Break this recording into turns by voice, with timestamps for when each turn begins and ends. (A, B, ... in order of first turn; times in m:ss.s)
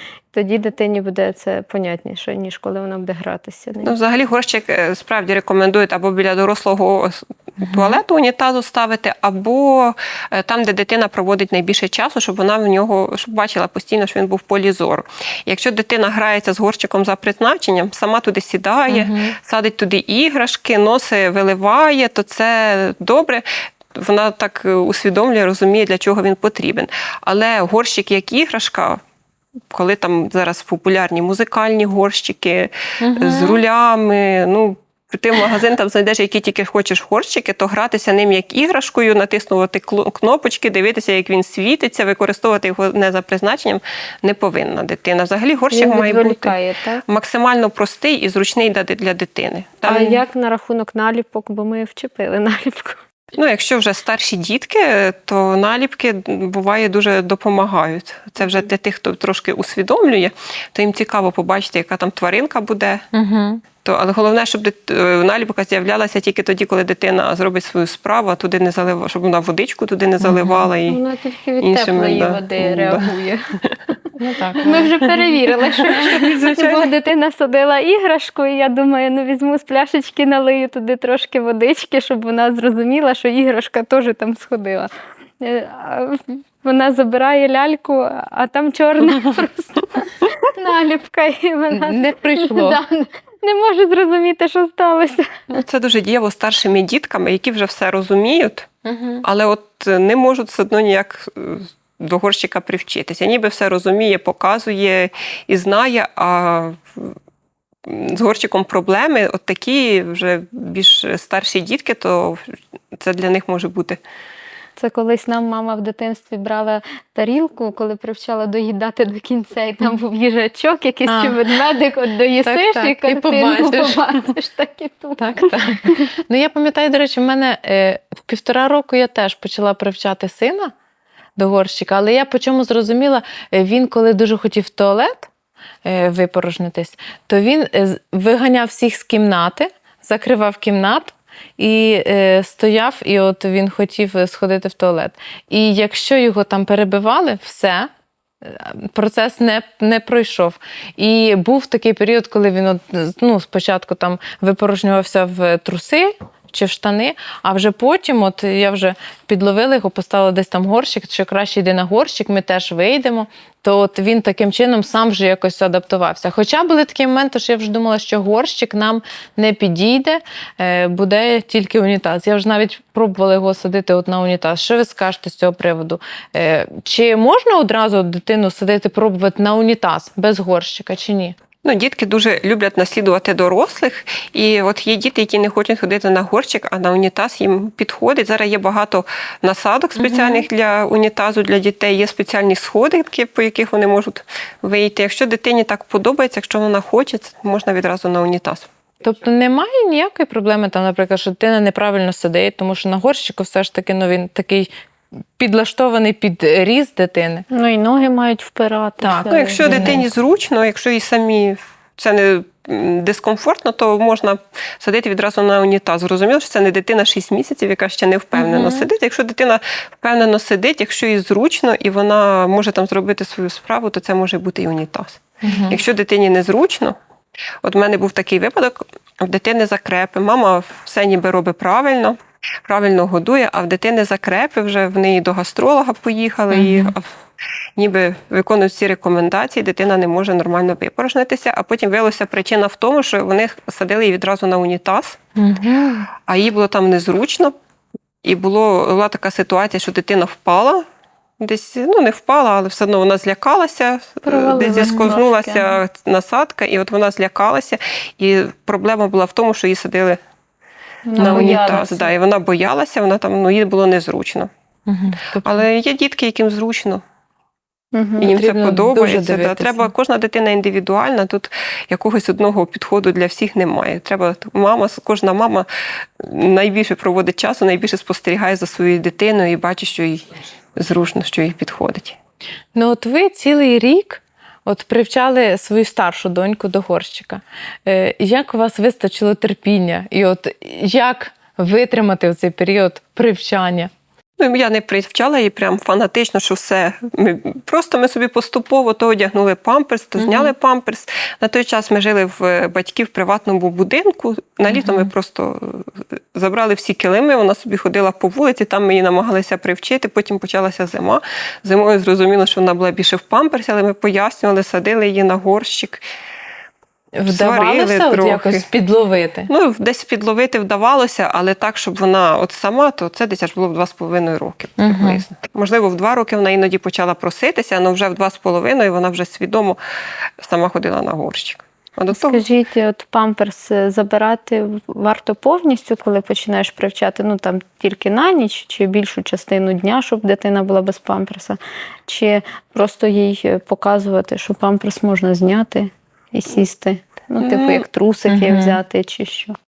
0:00.3-0:03.9 A
0:03.8-0:29.0 B
0:07.6-0:08.0 C
0:18.9-0:19.4 C
0:29.7-0:50.2 B
0:33.0-0:33.6 C
0:45.7-0:47.0 A
0:49.9-0:53.0 A
0:53.3-1:03.0 B
1:03.1-1:03.6 C
1:03.8-1:11.0 B
1:10.2-1:10.7 C
1:10.9-1:13.4 A
1:11.6-1:13.1 B
1:14.2-1:14.9 C
1:14.6-1:35.6 A
1:15.9-1:16.9 B
1:31.7-1:32.8 C
1:35.5-1:38.7 B
1:38.8-1:39.2 C
1:39.2-1:47.2 B
1:47.8-1:54.0 B
1:54.8-2:06.1 A
2:01.1-2:01.4 C
2:02.4-2:04.0 C
2:05.2-2:10.7 C
2:11.4-2:15.3 C
2:15.8-2:27.9 C
2:28.4-3:01.4 C
3:01.6-3:18.7 B
3:10.0-3:10.4 C
3:19.0-3:24.7 C
3:25.4-3:27.4 C
3:27.5-3:30.0 A
3:29.0-3:30.0 C
3:29.3-3:47.0 B
3:38.4-3:38.9 C
3:45.4-3:45.8 C
3:47.6-3:57.1 B
3:56.5-3:56.9 C
3:57.8-4:05.2 B
4:05.4-4:06.1 C
4:06.2-4:07.5 B
4:08.2-4:10.9 B
4:11.4-4:20.2 B
4:14.2-4:15.8 A
4:21.0-4:22.1 A
4:21.2-4:21.7 C
4:21.2-4:24.5 B
4:24.9-4:25.6 C
4:25.4-4:27.0 B
4:27.9-4:28.3 A
4:28.2-4:42.2 B
4:28.3-4:29.9 C
4:42.8-4:53.9 C
4:54.4-5:16.0 B
5:00.2-5:00.5 C
5:04.7-5:05.1 C
5:17.1-5:19.5 C
5:17.3-5:18.6 B
5:19.5-5:29.8 B
5:24.8-5:25.2 C
5:30.4-5:32.4 B
5:32.1-5:49.6 A
5:47.4-5:47.8 B
5:48.3-5:48.8 C